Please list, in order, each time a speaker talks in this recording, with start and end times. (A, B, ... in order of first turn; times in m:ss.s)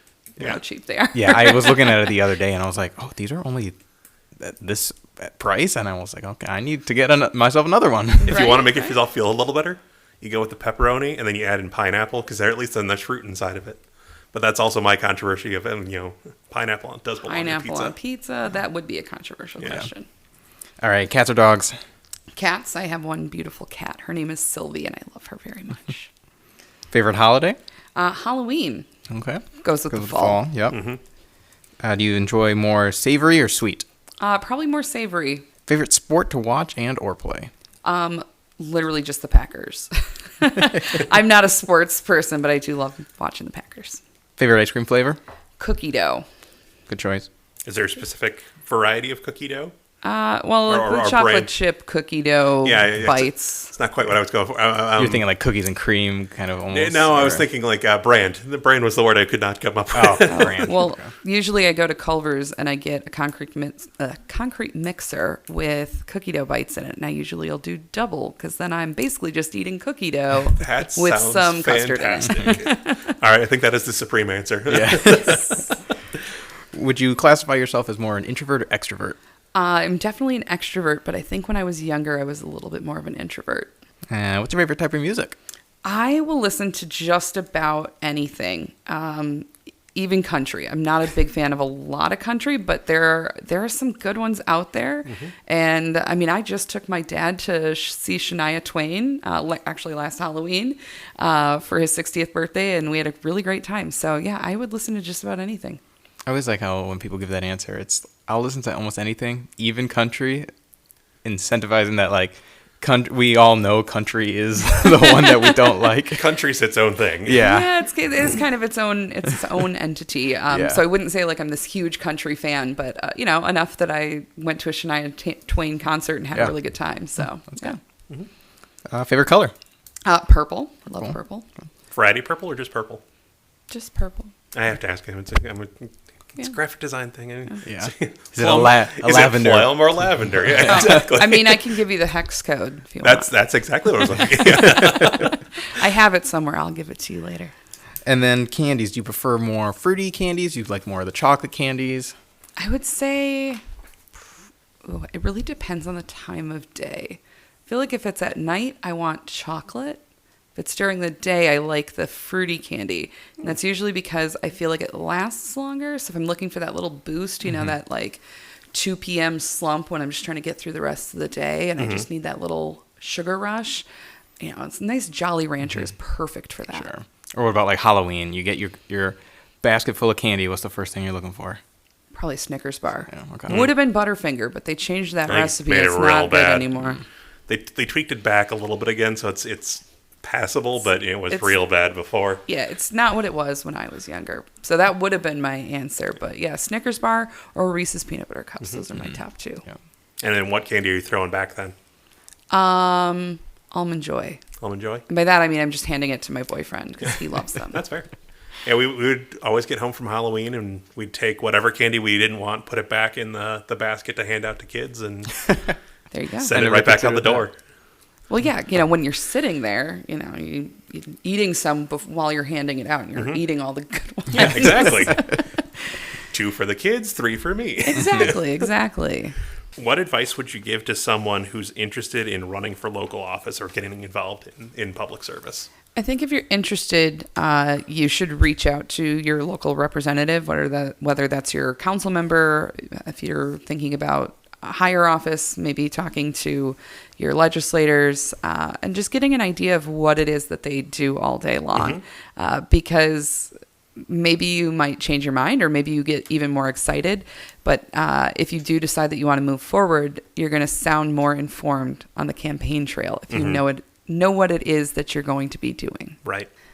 0:00.4-0:02.2 A
0:01.1-0:03.7 B
0:04.4-0:08.5 B
0:08.2-0:13.8 C
0:08.3-0:09.0 A
0:14.3-0:17.9 C
0:17.3-0:20.1 A
0:20.8-0:21.8 B
0:22.3-0:26.1 A
0:26.9-0:27.6 B
0:28.0-0:28.8 A
0:29.1-0:30.8 B
0:29.6-0:30.4 A
0:30.7-0:31.0 C
0:31.8-0:33.8 B
0:34.2-0:35.4 A
0:35.7-0:37.5 B
0:37.8-0:44.0 A
0:44.4-0:45.2 B
0:45.6-0:46.2 A
0:46.9-0:47.3 B
0:47.6-0:49.7 C
0:50.0-0:53.7 A
0:50.7-0:51.5 C
0:52.6-0:55.2 C
0:55.0-0:57.4 B
0:56.7-1:00.8 C
0:59.9-1:01.0 B
1:00.2-1:13.1 A
1:10.6-1:15.4 C
1:14.7-1:15.5 B
1:16.7-1:19.2 B
1:19.5-1:23.7 A
1:24.1-1:25.4 B
1:25.8-1:45.8 A
1:35.0-1:35.3 C
1:46.2-1:50.5 B
1:51.2-1:56.3 B
1:55.0-1:55.8 A
1:56.1-1:57.4 C
1:57.2-1:57.8 B
1:57.4-2:07.8 A
2:00.5-2:00.8 B
2:08.9-2:09.5 B
2:10.0-2:11.4 A
2:11.9-2:13.0 C
2:13.7-2:14.3 A
2:14.5-2:21.7 C
2:17.6-2:19.8 B
2:20.6-2:23.3 A
2:23.0-2:25.4 C
2:24.6-2:27.5 A
2:28.0-2:32.1 B
2:32.6-2:33.6 A
2:34.8-2:40.0 A
2:40.5-2:48.2 A
2:48.7-2:53.8 A
2:51.8-2:52.0 C
2:54.4-2:56.9 A
2:56.7-3:01.6 B
3:02.1-3:07.0 A
3:03.1-3:03.7 B
3:03.5-3:03.8 C
3:05.3-3:06.7 C
3:07.5-3:12.4 C
3:11.3-3:11.6 A
3:12.5-3:19.6 A
3:20.2-3:21.7 C
3:22.5-3:24.4 A
3:24.6-3:25.0 C
3:25.1-3:27.8 A
3:27.7-3:28.1 C
3:28.6-3:35.7 C
3:36.1-3:36.6 A
3:36.4-3:37.5 C
3:36.5-3:37.5 B
3:38.3-3:45.2 A
3:43.2-3:43.4 C
3:44.3-3:45.2 C
3:46.3-3:48.6 C
3:47.8-3:49.4 A
3:49.8-3:55.7 C
3:55.9-4:26.2 A
4:11.7-4:12.0 C
4:23.3-4:23.6 C